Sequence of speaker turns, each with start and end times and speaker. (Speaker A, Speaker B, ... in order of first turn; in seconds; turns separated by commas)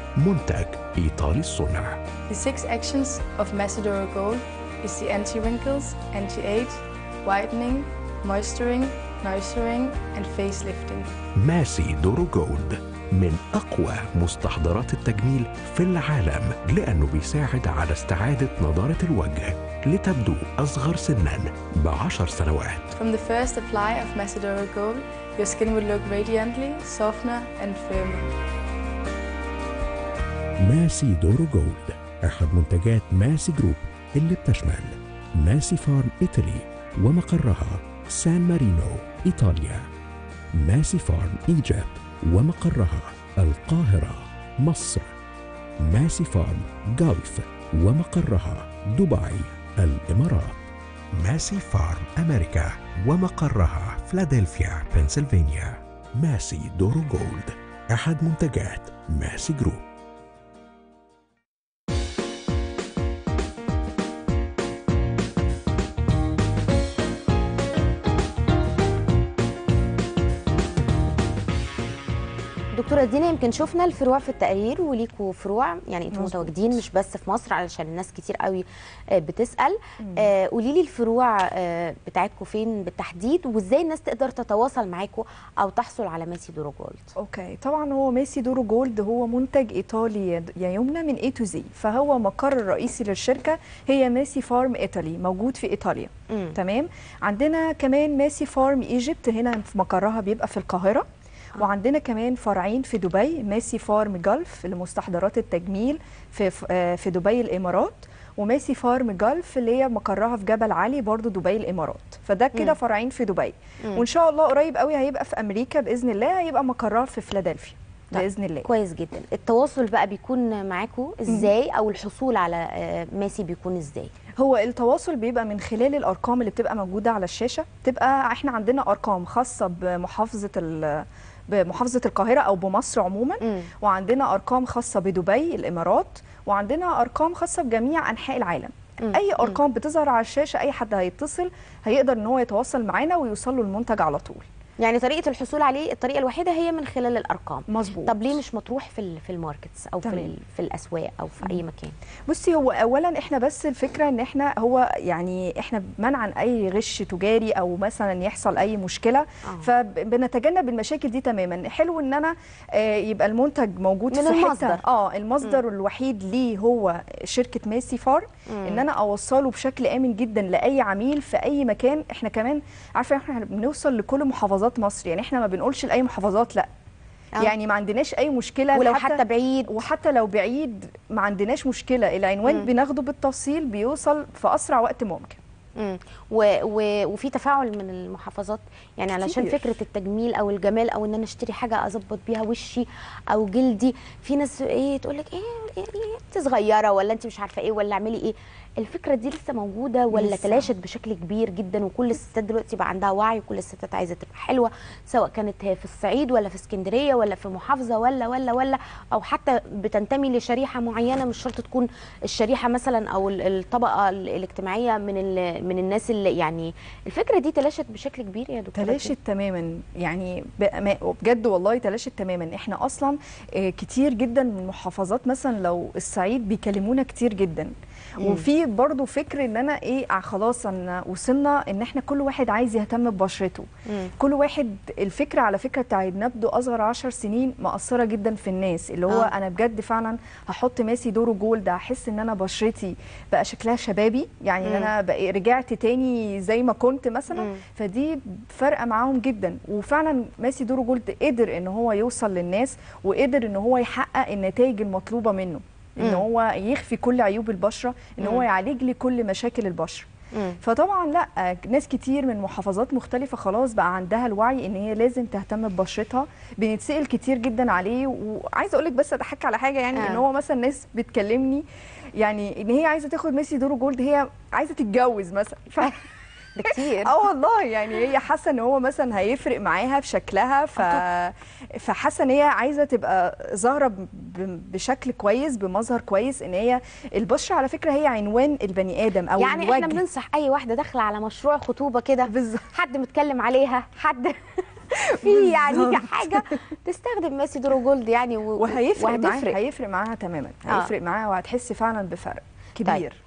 Speaker A: 0.2-2.0, Speaker B: 2.3-11.1, Speaker A: 11.4-22.9, Speaker B: 23.0-28.3, Speaker A: 30.6-39.8, Speaker A: 40.6-45.1, Speaker A: 45.8-50.6, Speaker A: 51.2-59.8, Speaker C: 72.7-87.1, Speaker D: 76.1-76.5, Speaker D: 80.0-80.3, Speaker D: 87.2-101.1, Speaker C: 96.3-96.6, Speaker D: 101.6-118.7, Speaker C: 118.1-124.1, Speaker D: 124.4-144.5, Speaker C: 133.4-133.7, Speaker C: 139.0-139.6, Speaker C: 144.8-151.9, Speaker D: 147.7-148.2, Speaker D: 150.0-150.3, Speaker D: 152.3-176.7, Speaker C: 164.1-164.8, Speaker C: 168.5-168.8, Speaker D: 177.4-185.4, Speaker C: 178.7-179.7, Speaker C: 185.8-219.1, Speaker D: 189.1-189.6, Speaker D: 200.1-200.7, Speaker D: 218.8-260.1, Speaker C: 228.2-228.5, Speaker C: 244.6-244.9, Speaker C: 247.3-247.6, Speaker C: 258.2-258.5, Speaker D: 260.6-276.0, Speaker C: 269.9-270.2, Speaker C: 276.6-277.2, Speaker D: 276.6-290.0, Speaker C: 280.8-281.1, Speaker C: 289.4-299.6, Speaker D: 292.3-292.7, Speaker D: 295.1-296.6, Speaker D: 298.6-303.2